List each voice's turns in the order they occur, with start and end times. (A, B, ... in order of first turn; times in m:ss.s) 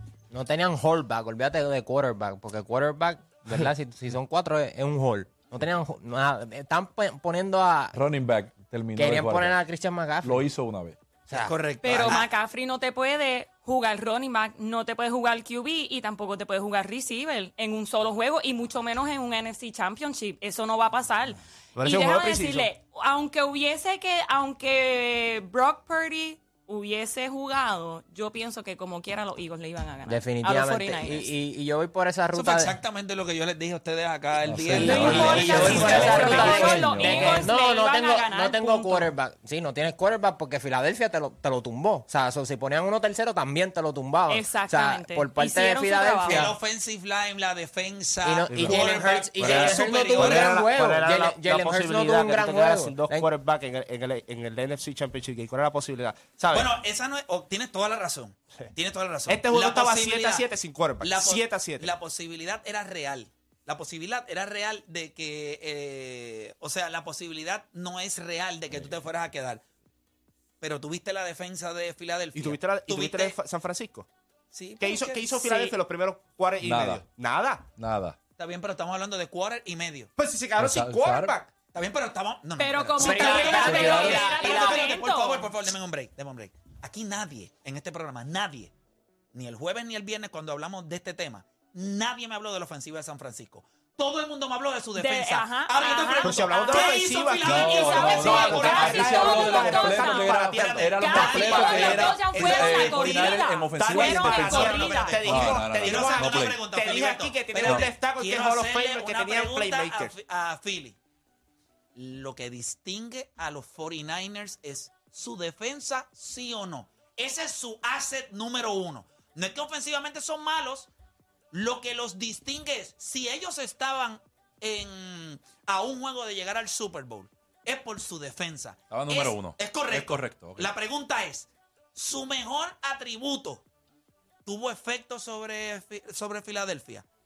0:00.3-0:08.0 A
0:07.9-0:09.6 B
0:09.0-0:10.5 A
0:10.2-0:11.0 B
0:11.3-0:11.5 A
0:11.3-0:12.3 C
0:11.8-0:31.3 D
0:21.7-0:22.7 E
0:30.0-0:32.8 A
0:32.3-0:36.8 C
0:34.4-0:37.5 B
0:34.7-0:46.5 A
0:34.8-0:39.1 D
0:44.3-0:46.5 D
0:46.3-0:50.6 C
0:48.2-0:53.3 A
0:48.5-0:48.8 E
0:49.4-0:56.7 E
0:56.5-1:00.5 C
0:59.3-1:01.9 E
1:01.0-1:09.6 C
1:10.6-1:13.3 C
1:12.3-1:14.1 E
1:14.5-1:15.7 C
1:14.8-1:17.7 E
1:16.6-1:17.0 B
1:17.7-1:18.2 B
1:18.4-1:20.1 C
1:20.2-1:21.5 E
1:20.6-1:21.4 B
1:21.7-1:28.7 C
1:22.6-1:25.5 D
1:23.0-1:24.9 A
1:23.6-1:24.3 B
1:29.3-1:39.5 C
1:35.0-1:40.4 D
1:36.2-1:42.2 E
1:37.4-1:46.6 B
1:40.4-1:43.5 C
1:41.0-1:45.2 D
1:43.7-1:50.1 E
1:44.0-1:51.0 C
1:47.6-1:47.9 B
1:51.9-2:00.9 C
2:01.5-2:13.6 C
2:08.9-2:10.7 B
2:14.4-2:17.0 C